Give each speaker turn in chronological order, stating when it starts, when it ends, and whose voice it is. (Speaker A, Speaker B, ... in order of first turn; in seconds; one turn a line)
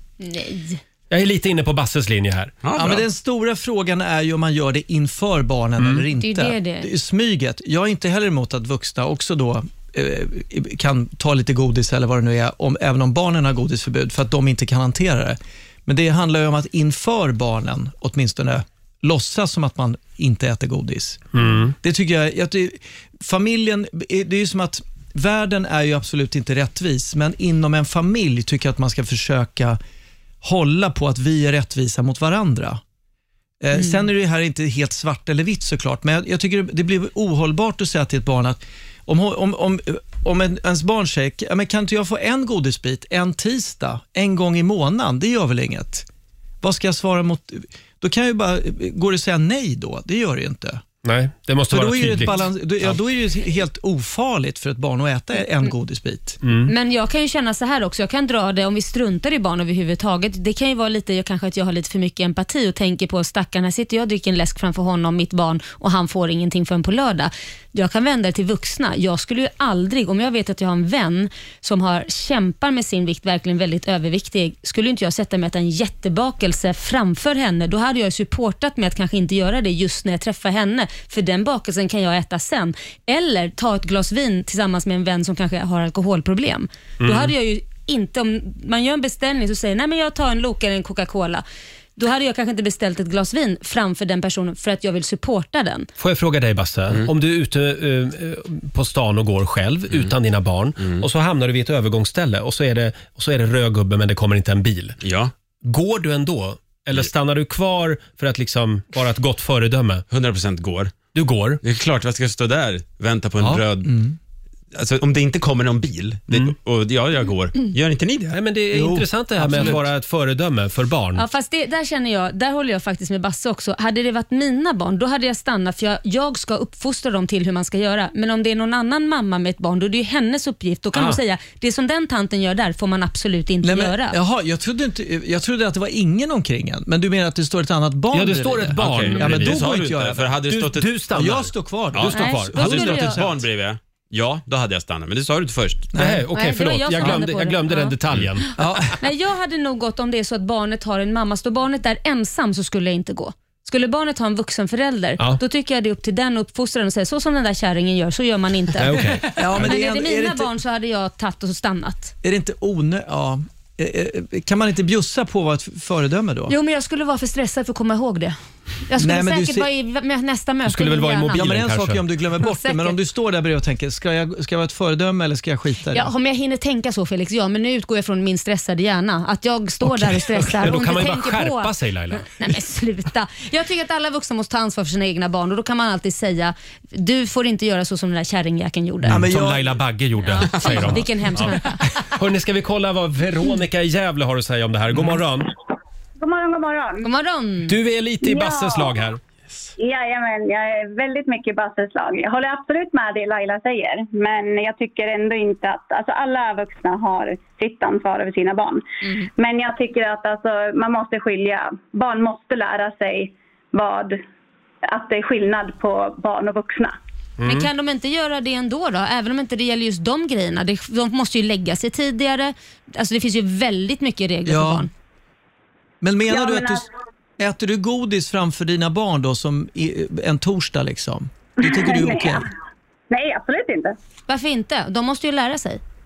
Speaker A: 0.2-0.8
Speaker B: 1.1-2.5
Speaker C: 2.6-3.0
Speaker D: 2.8-29.8
Speaker B: 5.8-6.1
Speaker A: 6.2-6.9
Speaker B: 21.3-21.8
Speaker D: 30.4-32.8
Speaker D: 33.6-46.1
Speaker A: 33.7-34.1
Speaker D: 46.6-50.9
Speaker B: 51.0-53.0
Speaker D: 51.7-56.4
Speaker B: 56.4-56.7
Speaker A: 56.7-91.4
Speaker B: 87.0-87.3
Speaker A: 92.0-95.9
Speaker B: 96.0-105.0
Speaker C: 100.8-101.0
Speaker C: 105.0-105.3
Speaker B: 105.6-110.0
Speaker C: 110.1-111.1
Speaker B: 111.1-111.6
Speaker C: 111.6-113.9
Speaker D: 113.8-114.2
Speaker C: 114.8-118.4
Speaker B: 116.3-116.5
Speaker B: 118.3-121.2
Speaker D: 118.7-119.9
Speaker A: 121.2-134.2
Speaker B: 130.9-131.2
Speaker D: 133.6-140.3
Speaker B: 138.1-143.1
Speaker C: 138.8-141.0
Speaker D: 141.1-143.4
Speaker C: 141.9-145.9
Speaker A: 142.1-143.2
Speaker D: 145.9-146.3
Speaker B: 145.9-148.9
Speaker A: 146.3-147.9
Speaker D: 148.6-149.0
Speaker A: 149.0-162.1
Speaker B: 158.8-159.8
Speaker D: 159.3-160.5
Speaker D: 162.2-166.5
Speaker A: 166.5-171.5
Speaker D: 169.0-169.7
Speaker B: 170.7-172.1
Speaker D: 171.3-176.1
Speaker A: 172.4-173.0
Speaker A: 175.9-189.2
Speaker B: 179.8-182.3
Speaker B: 189.1-195.5
Speaker D: 189.1-189.8
Speaker A: 190.2-191.8
Speaker E: 196.2-197.1
Speaker A: 197.0-197.8
Speaker B: 197.7-199.2
Speaker E: 198.2-199.0
Speaker E: 199.8-208.8
Speaker E: 209.4-214.2
Speaker E: 214.9-217.0
Speaker B: 217.4-217.7
Speaker A: 217.4-224.9
Speaker D: 224.5-224.9
Speaker D: 226.0-226.8
Speaker E: 226.3-226.8
Speaker D: 227.4-232.5
Speaker E: 231.6-232.4
Speaker E: 233.1-234.0
Speaker A: 234.3-235.8